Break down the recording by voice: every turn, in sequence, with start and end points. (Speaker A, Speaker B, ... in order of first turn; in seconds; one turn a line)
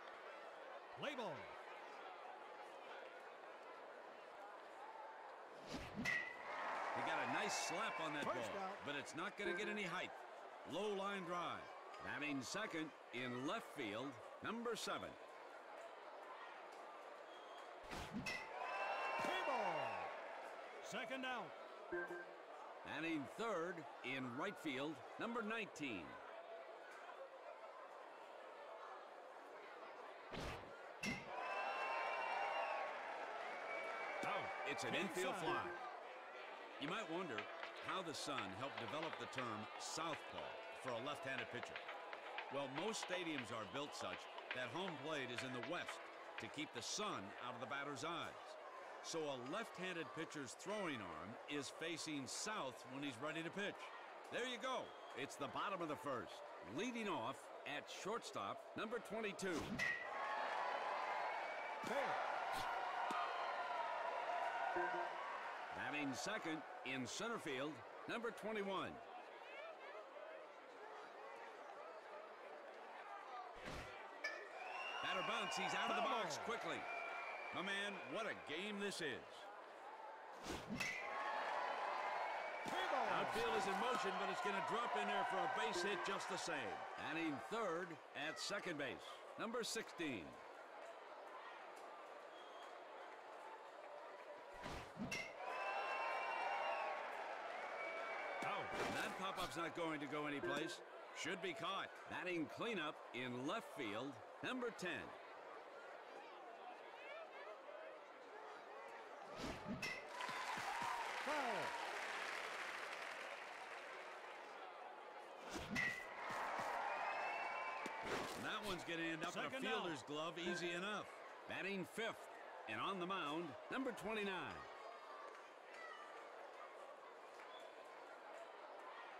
Speaker A: 0.9-1.6
Speaker B: 6.9-15.2
Speaker A: 8.2-8.8
Speaker A: 19.2-20.1
Speaker A: 20.8-21.6
Speaker B: 22.8-26.2
Speaker A: 34.2-35.7
Speaker B: 34.6-35.8
Speaker B: 36.8-41.8
Speaker B: 42.5-59.7
Speaker A: 61.8-62.2
Speaker B: 65.7-69.0
Speaker B: 75.0-76.9
Speaker A: 75.8-76.6
Speaker B: 77.5-79.5
Speaker A: 82.7-83.5
Speaker B: 83.0-90.4
Speaker A: 98.4-98.8
Speaker B: 98.8-105.2
Speaker A: 111.2-111.8
Speaker B: 118.3-124.7
Speaker A: 119.3-120.0